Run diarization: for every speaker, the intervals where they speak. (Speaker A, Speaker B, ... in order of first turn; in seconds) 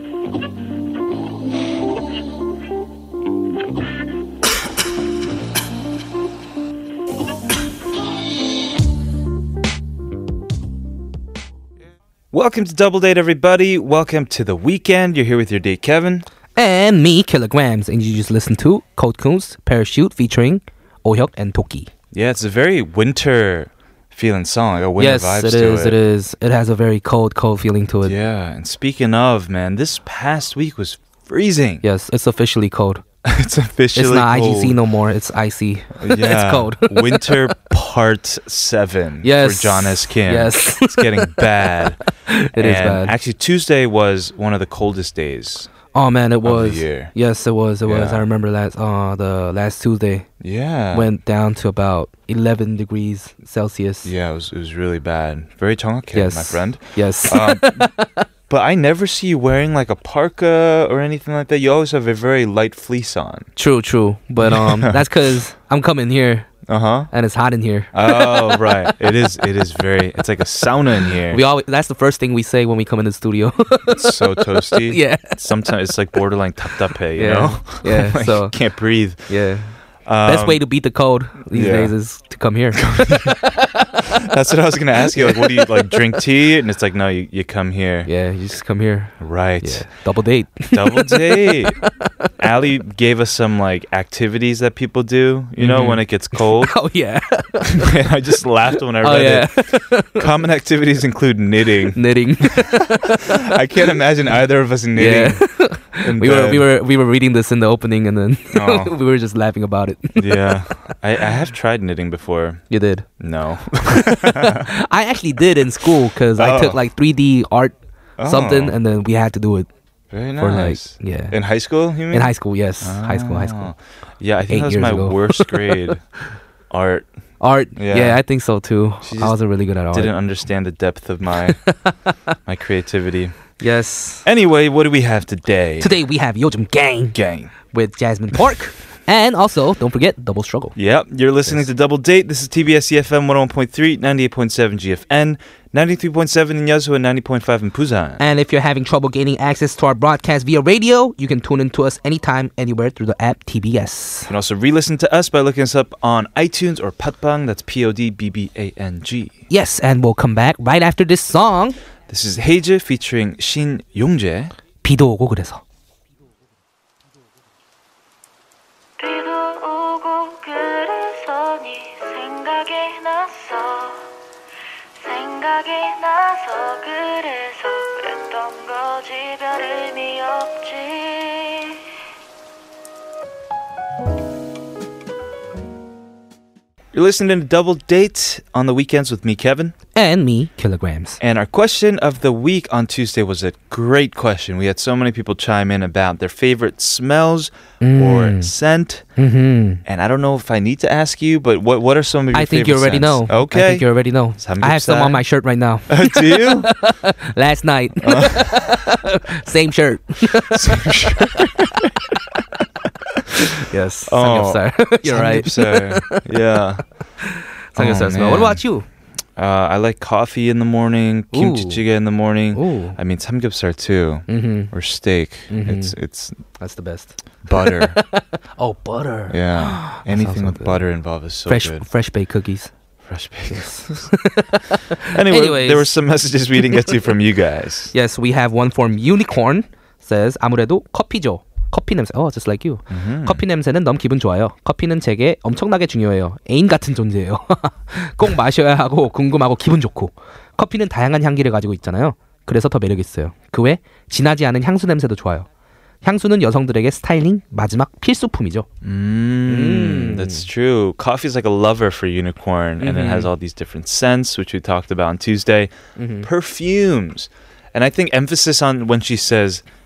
Speaker A: 12.3-16.3, 22.1-26.0, 28.0-31.8, 33.2-34.8, 36.0-42.0, 42.5-45.7, 46.4-47.1, 47.9-48.2, 50.4-51.1, 54.0-57.9, 58.5-63.5, 64.4-65.2, 66.7-67.1, 67.9-71.4, 73.9-79.5, 80.0-80.7, 81.5-81.9, 82.8-83.4, 84.1-88.1, 89.2-89.9, 90.7-91.8, 92.4-96.8, 97.7-102.1, 103.5-106.7, 108.5-108.9, 110.2-112.6, 113.2-114.7, 116.3-116.8, 118.2-118.8, 120.1-126.0, 126.7-127.1, 127.7-128.2, 129.0-131.6, 132.4-133.5, 134.2-136.0, 137.1-137.5, 140.8-148.2, 154.3-159.4, 162.1-164.5, 186.9-189.7, 191.2-199.1, 199.8-205.2, 205.9-206.7, 208.0-208.5, 210.3-211.9, 214.1-216.8, 217.8-218.6, 219.3-226.4, 227.4-228.0, 229.3-231.8, 233.0-234.1, 235.1-237.9, 242.9-243.4, 258.8-269.6
Speaker B: 16.6-21.9, 25.0-28.1, 31.8-33.0, 33.9-37.4, 39.2-41.7, 42.3-43.1, 45.9-50.3, 50.9-54.1, 56.1-58.2, 63.5-66.5, 67.1-68.9, 71.2-75.4, 77.1-78.6, 79.2-84.0, 85.2-86.0, 88.0-92.3, 95.6-98.0, 99.0-100.2, 101.9-103.2, 105.0-110.9, 112.7-113.1, 113.9-119.7, 120.4-121.4, 122.1-123.7, 124.5-125.9, 127.4-130.1, 131.7-131.9, 133.6-134.2, 135.8-140.8, 148.2-154.3, 159.5-161.8, 164.8-165.6, 189.9-191.2, 197.8-198.5, 199.2-199.8, 202.3-210.6, 213.6-216.3, 217.2-218.8, 221.3-221.8, 222.5-223.0, 224.3-224.7, 225.5-225.9, 226.6-230.9, 231.4-232.7, 233.5-235.9, 236.7-237.0, 237.9-255.5, 256.0-258.7, 259.5-260.4, 262.8-263.3, 266.0-266.3
Speaker C: 169.0-174.1, 175.0-181.8